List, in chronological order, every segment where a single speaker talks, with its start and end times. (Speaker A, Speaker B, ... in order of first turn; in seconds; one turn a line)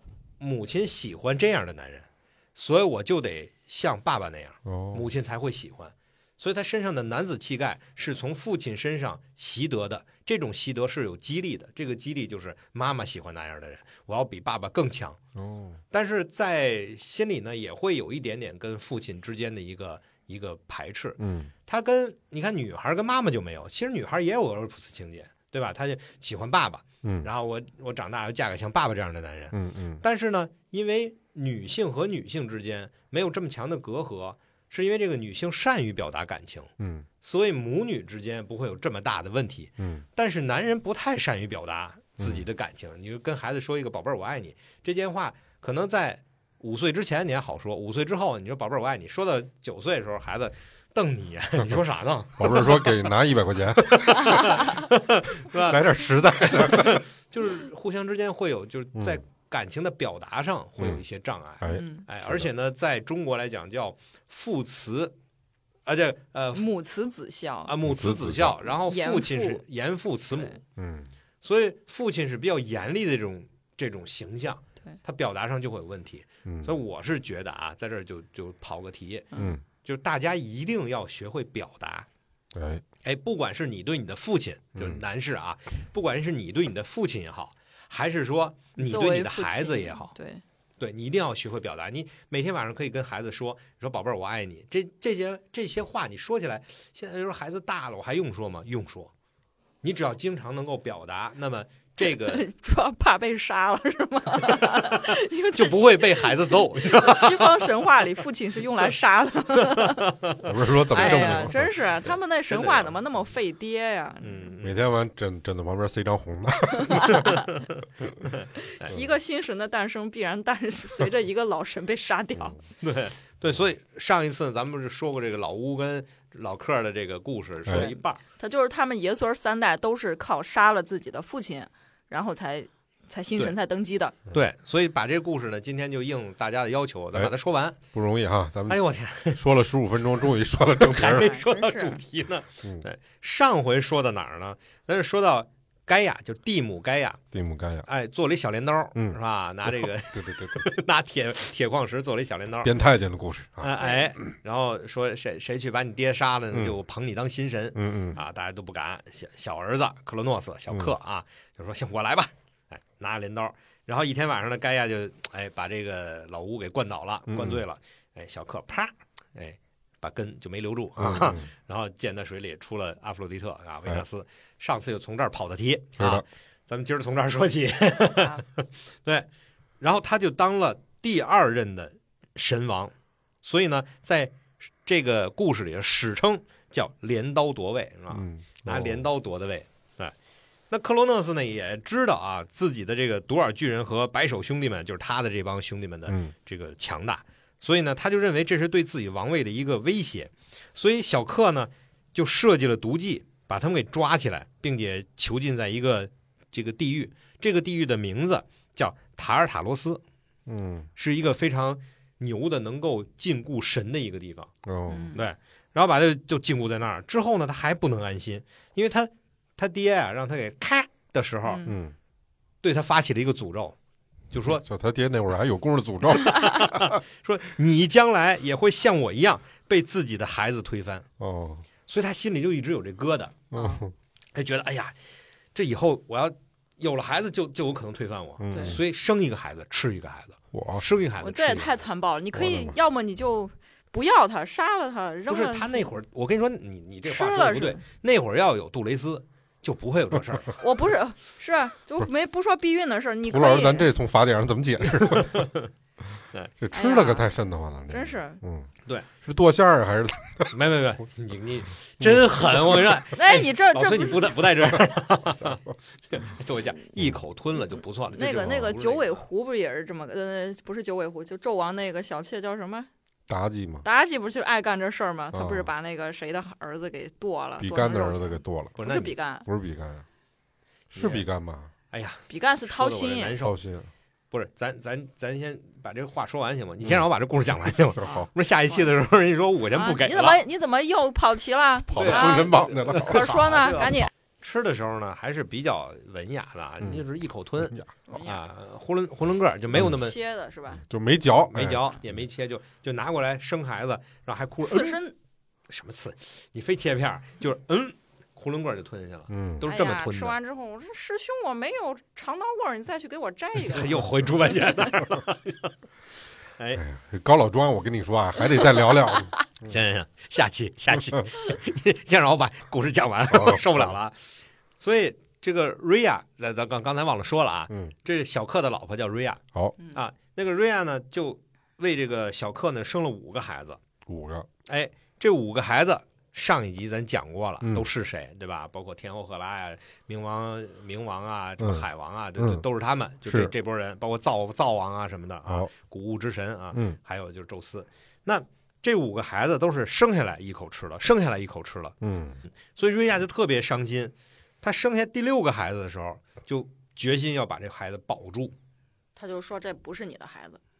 Speaker A: 0.4-15.2
Speaker B: 4.6-5.0
Speaker B: 15.3-15.8
Speaker A: 15.9-53.0
Speaker B: 21.2-21.5
Speaker B: 27.0-27.3
Speaker B: 29.5-30.0
Speaker B: 36.8-37.0
Speaker B: 39.8-40.0
Speaker B: 42.2-42.4
Speaker B: 52.4-54.8
Speaker A: 53.8-55.8
Speaker B: 55.5-57.0
Speaker A: 56.4-65.1
Speaker B: 61.6-62.5
Speaker C: 61.6-62.0
Speaker A: 65.8-66.7
Speaker C: 66.5-67.7
Speaker A: 67.7-70.6
Speaker B: 67.8-68.6
Speaker C: 68.8-69.6
Speaker B: 70.8-71.1
Speaker A: 71.4-79.3
Speaker B: 76.5-76.7
Speaker C: 79.3-79.6
Speaker B: 79.3-79.6
Speaker A: 79.8-82.1
Speaker B: 82.5-82.8
Speaker A: 83.0-90.1
Speaker C: 88.8-90.4
Speaker A: 90.8-99.1
Speaker A: 99.8-102.5
Speaker C: 102.0-110.1
Speaker A: 104.6-107.7
Speaker A: 109.7-110.4
Speaker B: 110.4-112.1
Speaker C: 110.8-114.5
Speaker A: 111.0-111.3
Speaker A: 112.5-113.0
Speaker A: 114.2-114.8
Speaker B: 114.6-117.4
Speaker C: 116.8-117.4
Speaker A: 117.2-118.9
Speaker C: 118.7-122.6
Speaker A: 122.8-128.2
Speaker C: 127.7-134.2
Speaker A: 134.3-137.8
Speaker B: 137.9-138.8
Speaker A: 138.7-139.4
Speaker B: 139.3-141.4
Speaker A: 140.7-147.2
Speaker C: 141.0-142.0
Speaker B: 147.3-147.8
Speaker A: 147.8-152.7
Speaker B: 148.9-150.6
Speaker B: 152.6-153.8
Speaker A: 153.6-179.3
Speaker B: 157.7-158.2
Speaker B: 167.3-167.6
Speaker B: 171.0-171.4
Speaker B: 176.0-176.2
Speaker A: 179.8-190.1
Speaker B: 188.1-189.0
Speaker A: 190.7-210.0
Speaker B: 196.1-196.3
Speaker B: 210.5-210.9
Speaker A: 210.9-214.5
Speaker B: 214.6-215.2
Speaker C: 214.9-215.2
Speaker A: 215.1-221.6
Speaker C: 221.4-221.8
Speaker B: 221.6-221.9
Speaker A: 222.6-223.8
Speaker A: 224.3-224.6
Speaker B: 224.4-227.0
Speaker A: 226.2-231.1
Speaker B: 231.2-231.7
Speaker A: 231.9-233.4
Speaker B: 233.5-233.9
Speaker C: 233.5-233.8
Speaker A: 234.3-234.9
Speaker A: 235.5-241.8
Speaker B: 238.4-238.8
Speaker C: 238.5-238.8
Speaker B: 240.5-240.8
Speaker C: 241.2-245.9
Speaker B: 242.3-242.8
Speaker A: 245.3-250.6
Speaker C: 247.0-247.8
Speaker C: 250.6-253.9
Speaker B: 253.2-255.5
Speaker A: 255.1-255.7
Speaker B: 256.1-258.7
Speaker C: 256.7-257.3
Speaker C: 257.9-258.4
Speaker B: 259.2-260.5
Speaker A: 260.5-269.2
Speaker B: 262.0-262.8
Speaker C: 263.1-264.4
Speaker C: 268.1-272.9
Speaker B: 273.3-273.9
Speaker C: 273.8-279.5
Speaker B: 275.3-275.7
Speaker B: 277.6-278.8
Speaker A: 278.8-279.1
Speaker B: 279.4-280.1
Speaker B: 280.9-281.7
Speaker A: 280.9-281.2
Speaker A: 281.9-283.6
Speaker C: 282.3-283.4
Speaker B: 283.4-283.9
Speaker A: 284.3-290.4
Speaker B: 287.6-288.3
Speaker C: 288.0-288.9
Speaker C: 289.7-294.1
Speaker B: 291.9-294.0
Speaker A: 291.9-300.1
Speaker B: 296.8-297.1
Speaker B: 297.6-297.9
Speaker C: 298.1-298.4
Speaker C: 299.7-300.8
Speaker B: 300.9-301.9
Speaker A: 301.5-305.0
Speaker C: 304.6-305.1
Speaker A: 305.7-310.4
Speaker B: 309.3-309.6
Speaker C: 309.6-314.0
Speaker A: 313.7-315.7
Speaker A: 316.6-316.8
Speaker B: 316.8-319.7
Speaker C: 318.5-319.4
Speaker A: 319.6-324.2
Speaker B: 323.3-323.9
Speaker A: 324.8-333.8
Speaker B: 334.1-334.5
Speaker A: 334.7-351.9
Speaker B: 337.6-337.9
Speaker B: 341.6-341.9
Speaker B: 342.4-342.6
Speaker B: 343.2-343.5
Speaker B: 346.7-347.0
Speaker B: 352.0-352.4
Speaker A: 352.7-358.5
Speaker C: 359.1-360.6